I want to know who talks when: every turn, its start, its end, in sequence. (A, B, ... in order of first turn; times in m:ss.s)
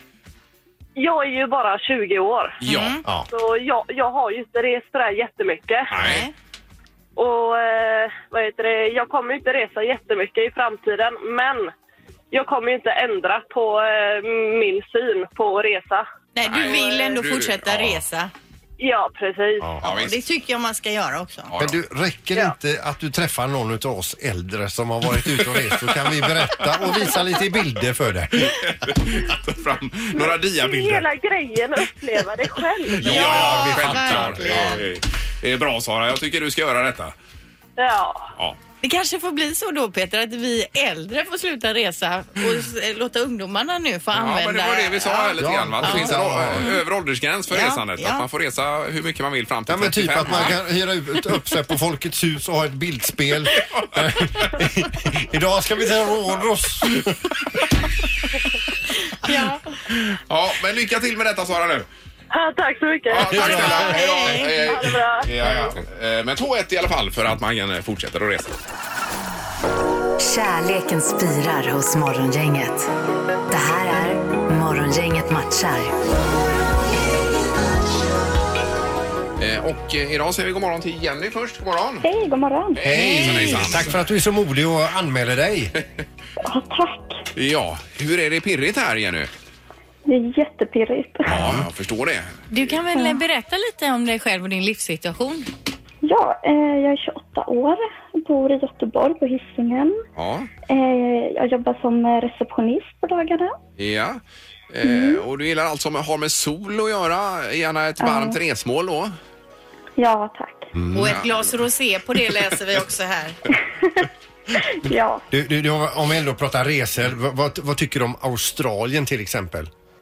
0:01.0-0:02.6 A
0:02.6-0:03.0 B
0:02.6-0:03.0 C
0:03.3-0:05.9 A
0:05.9-0:06.2 B
0:06.0-0:06.3 C
0:07.2-0:11.7 A
0:12.3-0:16.0 A
0:16.4-0:18.3 C
0:16.5-0:18.0 B
0:18.8-0:19.8 A
0:19.8-0:20.2 B
0:19.8-0:21.5 C
0:21.5-0:21.8 B
0:21.6-0:28.7 D
0:25.2-0:27.1 B
0:28.4-0:31.1 B
0:30.2-0:33.2 A
0:33.0-0:37.1 B
0:33.0-0:34.8 C
0:33.0-0:34.8 D
0:37.8-0:38.3 A
0:38.8-0:46.8 C
0:44.1-0:50.6 B
0:45.4-0:46.7 D
0:47.5-0:48.2 C
0:49.7-0:57.3 D
0:53.7-0:54.2 B
0:59.2-0:59.6 C
0:59.9-1:01.9 B
1:02.3-1:05.3 A
1:03.1-1:08.6 B
1:03.3-1:03.9 D
1:03.4-1:04.6 C
1:10.2-1:12.9 E
1:13.5-1:15.9 E
1:19.4-1:22.0 B
1:22.0-1:22.8 F
1:22.8-1:24.0 B
1:22.8-1:25.7 D
1:23.0-1:23.6 C
1:26.4-1:27.2 F
1:27.4-1:29.3 B
1:30.1-1:31.6 F
1:31.3-1:31.6 D
1:31.3-1:32.8 B
1:32.5-1:35.5 C
1:36.0-1:40.0 F
1:40.2-1:40.5 B
1:40.7-1:43.6 F
1:43.8-1:49.1 B
1:44.8-1:45.2 F
1:48.0-1:48.4 F
1:50.0-1:50.7 F
1:50.8-1:51.2 D
1:50.9-1:53.4 C
1:53.8-1:54.1 F
1:54.8-1:55.2 F
1:55.3-1:59.7 D